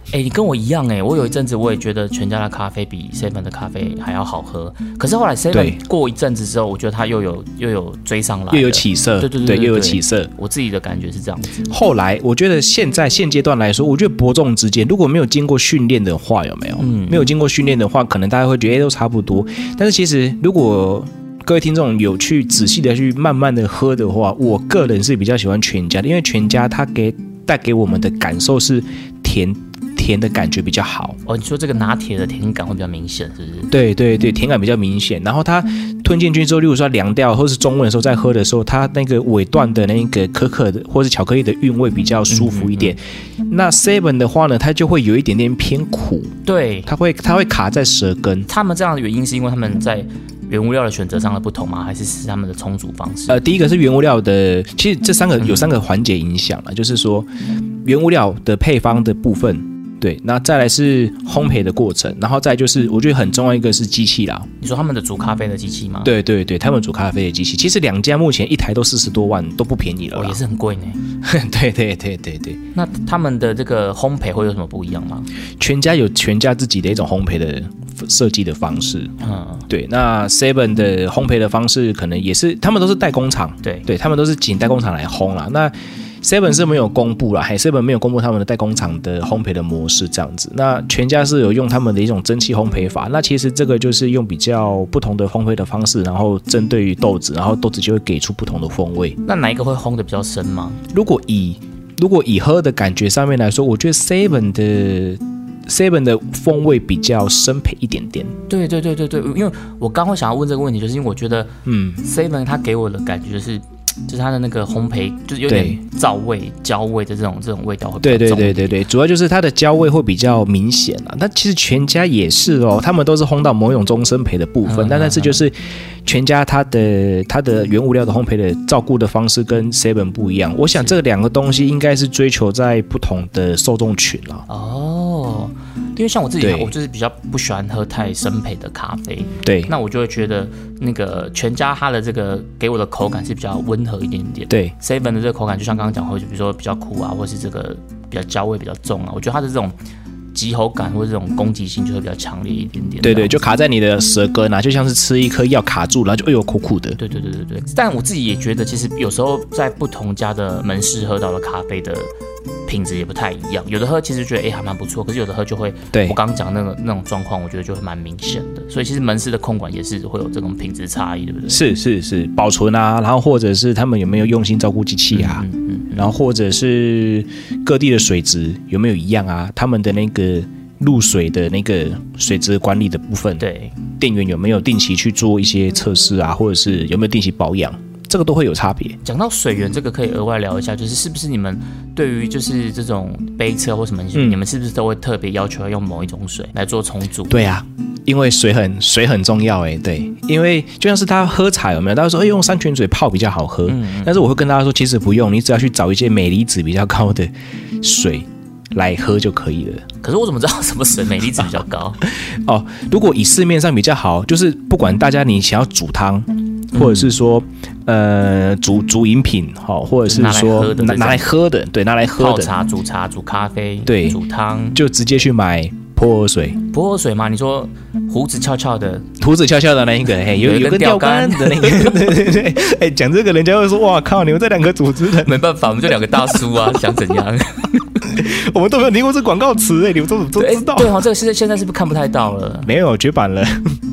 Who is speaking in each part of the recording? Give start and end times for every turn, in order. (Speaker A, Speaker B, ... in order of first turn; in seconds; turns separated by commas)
Speaker A: 0.1-11.7, Speaker B: 5.5-5.8, Speaker B: 8.5-10.3, Speaker B: 11.7-31.2, Speaker A: 16.8-17.3, Speaker A: 31.3-33.7, Speaker B: 33.7-46.3, Speaker A: 42.3-43.0, Speaker A: 46.5-46.9, Speaker B: 46.9-48.5, Speaker A: 48.5-53.4, Speaker B: 53.3-57.3, Speaker A: 55.4-55.7, Speaker B: 57.8-64.5, Speaker A: 64.6-66.1, Speaker B: 66.0-70.4, Speaker A: 70.1-71.0, Speaker B: 71.2-72.6, Speaker A: 72.8-75.3, Speaker B: 75.6-79.1, Speaker A: 79.2-79.7, Speaker B: 79.7-99.2, Speaker A: 99.2-100.8, Speaker B: 100.9-108.3, Speaker A: 108.5-118.8, Speaker B: 111.7-112.0, Speaker B: 115.5-115.8, Speaker B: 118.0-134.5, Speaker A: 124.7-125.4, Speaker A: 134.5-149.8, Speaker B: 136.4-136.7, Speaker B: 139.4-139.7, Speaker A: 150.3-153.4, Speaker B: 153.0-157.0, Speaker A: 157.0-162.1, Speaker A: 162.7-171.6, Speaker B: 165.9-166.2, Speaker B: 171.5-183.4, Speaker A: 175.1-176.1, Speaker A: 183.4-183.8, Speaker B: 184.0-189.0, Speaker A: 189.0-197.4, Speaker B: 194.1-194.4, Speaker B: 197.3-209.8, Speaker A: 203.7-204.2, Speaker A: 210.0-212.0, Speaker B: 212.0-222.5, Speaker A: 216.8-217.1, Speaker A: 220.1-221.4, Speaker A: 222.2-224.8, Speaker B: 223.9-224.2, Speaker B: 224.7-226.6, Speaker A: 226.7-229.1, Speaker B: 229.2-235.4, Speaker A: 230.3-232.1, Speaker A: 235.2-237.8, Speaker B: 238.0-241.0, Speaker A: 240.3-242.7, Speaker B: 242.7-243.8